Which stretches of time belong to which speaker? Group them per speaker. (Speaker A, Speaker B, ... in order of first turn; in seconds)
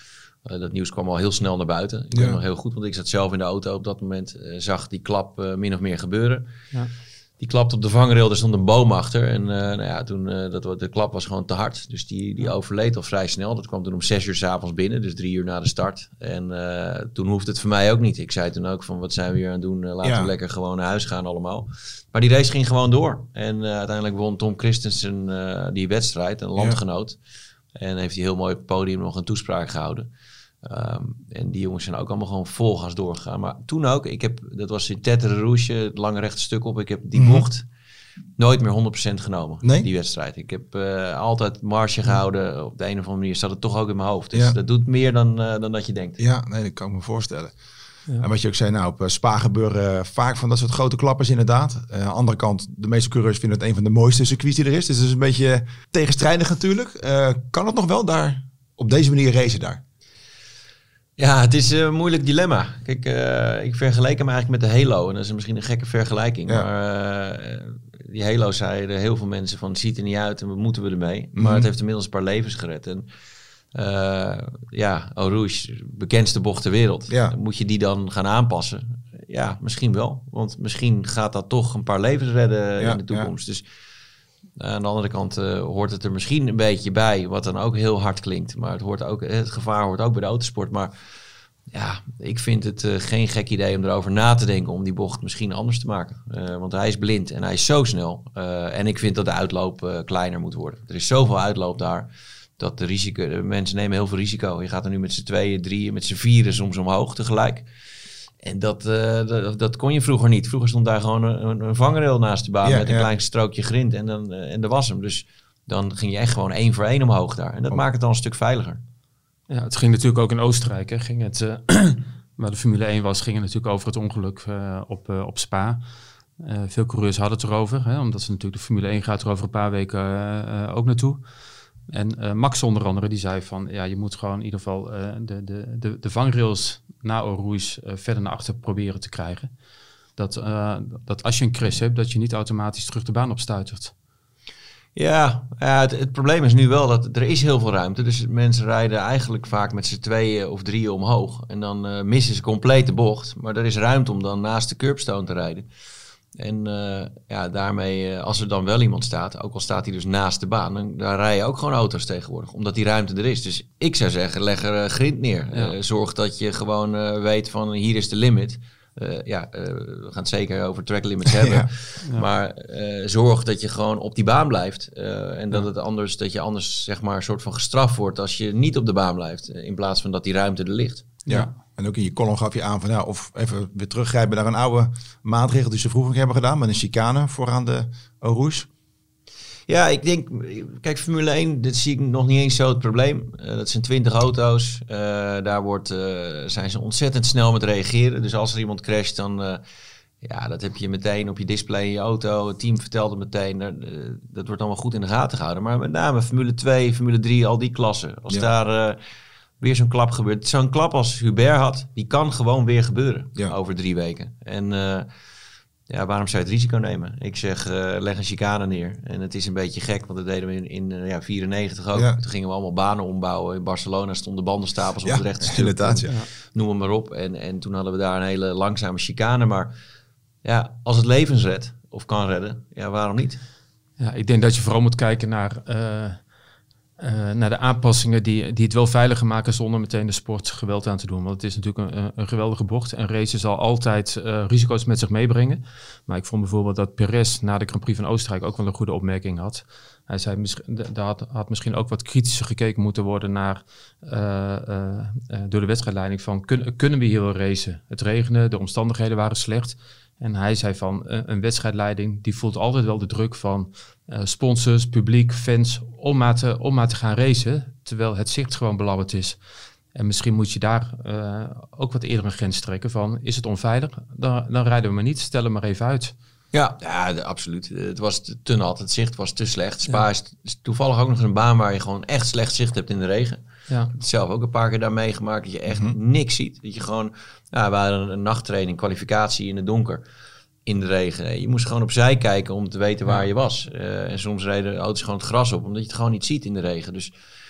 Speaker A: 0.4-6.5, 7.4-27.2, 27.8-30.1, 30.6-37.6, 38.4-46.2, 61.2-73.0, 73.7-83.6, 84.6-90.9, 91.7-107.7, 108.4-118.8, 144.9-155.7, 156.3-181.1, 189.7-199.6, 200.2-209.0, 209.6-215.1, 215.9-229.7, 230.4-233.4, 276.5-290.0, 290.6-297.1
Speaker B: 2.1-2.4, 20.0-20.3, 37.1-37.5, 39.6-39.9, 46.2-47.6, 48.2-59.8, 71.3-71.7, 77.1-77.3, 82.8-83.3, 112.6-113.1, 171.2-171.7, 181.3-188.7, 225.0-226.1, 285.7-285.9
Speaker C: 119.5-125.8, 126.4-139.6, 140.1-143.9, 172.0-172.3, 181.3-181.6, 234.0-236.4, 237.0-276.1